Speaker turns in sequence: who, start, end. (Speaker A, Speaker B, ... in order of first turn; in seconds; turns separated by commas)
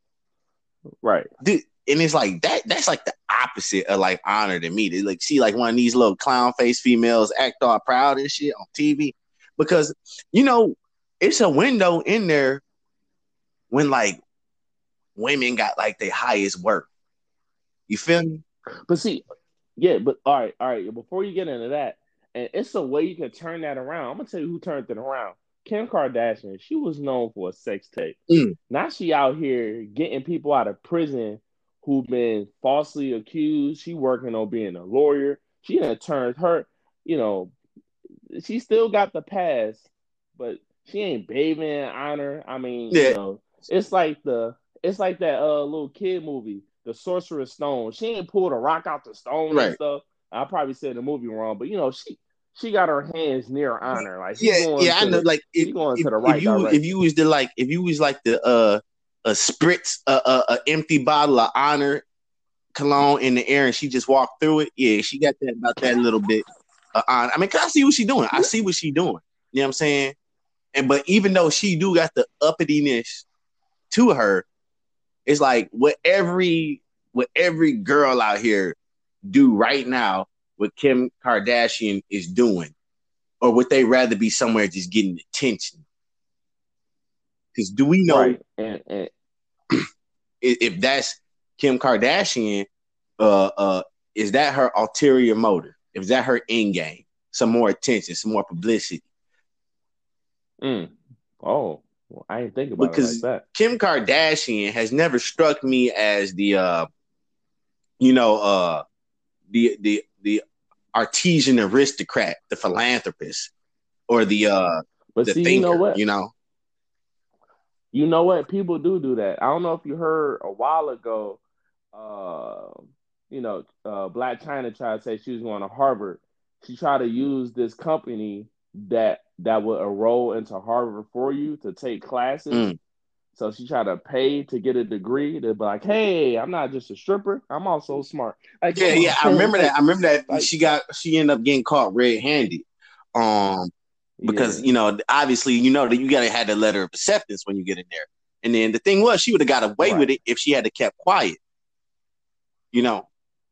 Speaker A: 1.0-1.3, Speaker B: 1.4-12.6, Speaker B: 13.7-14.2, Speaker B: 15.2-16.9, Speaker B: 17.9-18.4, Speaker A: 18.9-19.2, Speaker A: 19.8-28.2, Speaker B: 28.3-28.6, Speaker A: 28.7-37.5, Speaker A: 38.3-56.8, Speaker B: 42.9-43.2, Speaker B: 49.5-49.8, Speaker B: 54.0-62.0, Speaker B: 62.8-70.2, Speaker B: 70.7-73.3, Speaker B: 73.9-74.5, Speaker B: 75.3-82.7, Speaker B: 83.4-85.8, Speaker B: 87.5-88.4, Speaker A: 88.1-89.1, Speaker B: 90.4-92.7, Speaker B: 93.2-99.0, Speaker A: 100.6-103.4, Speaker B: 102.8-106.9, Speaker B: 108.0-108.8, Speaker B: 109.5-110.4, Speaker B: 110.9-113.5, Speaker B: 114.1-116.3, Speaker A: 115.2-116.0, Speaker A: 117.9-121.4, Speaker A: 121.9-122.8, Speaker A: 123.3-132.7, Speaker B: 132.5-132.8, Speaker A: 133.3-139.8, Speaker B: 138.7-143.7, Speaker A: 144.2-144.7, Speaker B: 144.2-151.4, Speaker A: 149.8-150.1, Speaker B: 152.7-153.1